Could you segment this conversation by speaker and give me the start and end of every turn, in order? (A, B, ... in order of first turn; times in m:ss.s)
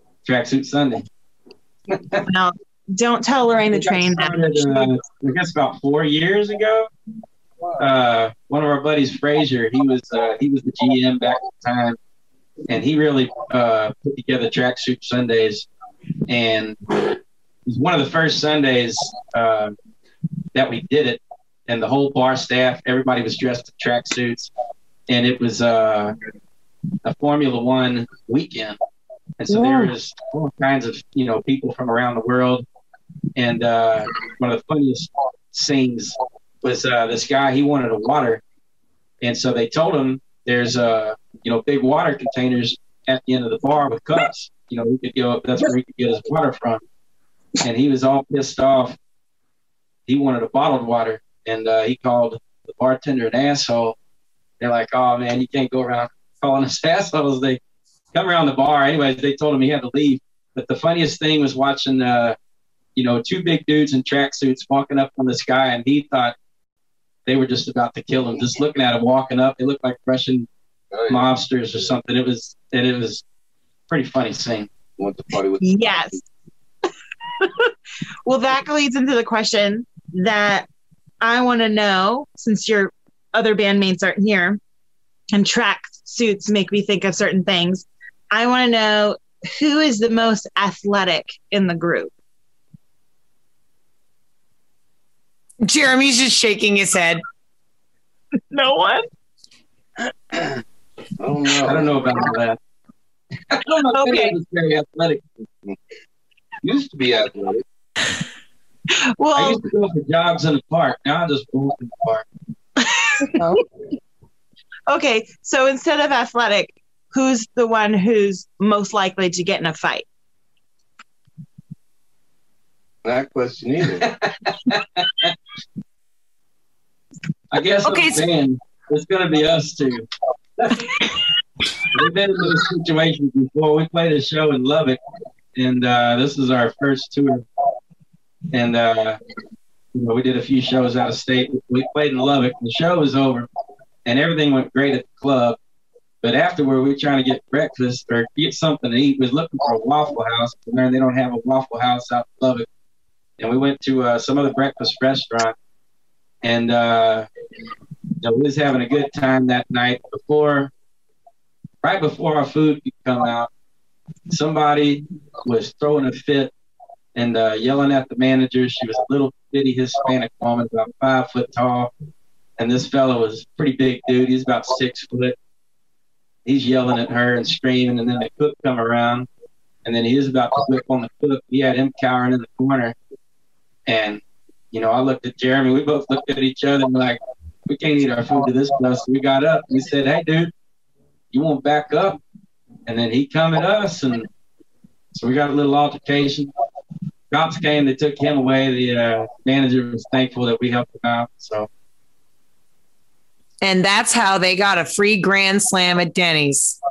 0:00.2-0:01.1 A
0:01.9-0:02.2 A
0:02.3-0:04.9 B
0:03.7-0:06.9 A
0:07.8-0:12.0 A
0:12.7-0:15.7 A
0:16.3-0:16.8 A
0:17.7-0:19.8 A
0:20.5-0:24.5 A
0:25.1-0:26.1 A
0:27.0-0:28.8 A
0:29.4-0:32.6 A
0:33.4-0:38.4 A
0:39.2-0:46.8 A
0:47.6-0:49.0 A
0:50.1-0:54.0 A
0:54.6-0:57.6 A
0:58.1-1:02.4 A
1:03.0-1:06.4 A
1:07.2-1:10.5 A
1:10.9-1:11.2 C
1:11.1-1:13.2 A
1:13.9-1:14.7 A
1:15.0-1:16.2 C
1:15.6-1:16.2 B
1:17.4-1:17.7 B
1:18.2-1:20.7 B
1:21.2-1:24.6 B
1:25.3-1:32.1 B
1:35.6-1:37.2 D
1:38.5-1:39.0 B
1:40.3-1:40.6 C
1:41.2-1:42.0 C
1:41.6-1:42.6 A
1:43.5-1:45.2 A
1:43.9-1:44.4 B
1:46.6-1:47.6 C
1:48.9-1:49.6 B
1:49.4-1:52.3 A
1:52.8-1:53.6 B
1:53.4-1:53.6 D
1:54.9-2:00.1 B
2:03.0-2:04.1 C
2:04.0-2:05.4 A
2:07.5-2:10.1 A
2:07.8-2:08.2 D
2:10.6-2:11.0 A
2:11.8-2:15.0 A
2:15.6-2:17.4 A
2:18.5-2:19.2 A
2:19.9-2:23.5 A
2:24.0-2:25.6 A
2:26.2-2:32.7 A
2:33.4-2:35.6 A
2:36.4-2:37.3 A
2:38.2-2:40.7 A
2:41.8-2:43.5 A
2:44.3-2:46.5 A
2:47.2-2:51.9 A
2:52.6-2:55.4 A
2:56.4-2:59.3 A
2:59.8-3:03.0 A
3:03.9-3:10.5 A
3:11.3-3:12.2 A
3:12.9-3:14.3 A
3:15.1-3:16.5 A
3:17.3-3:21.7 A
3:23.6-3:26.8 D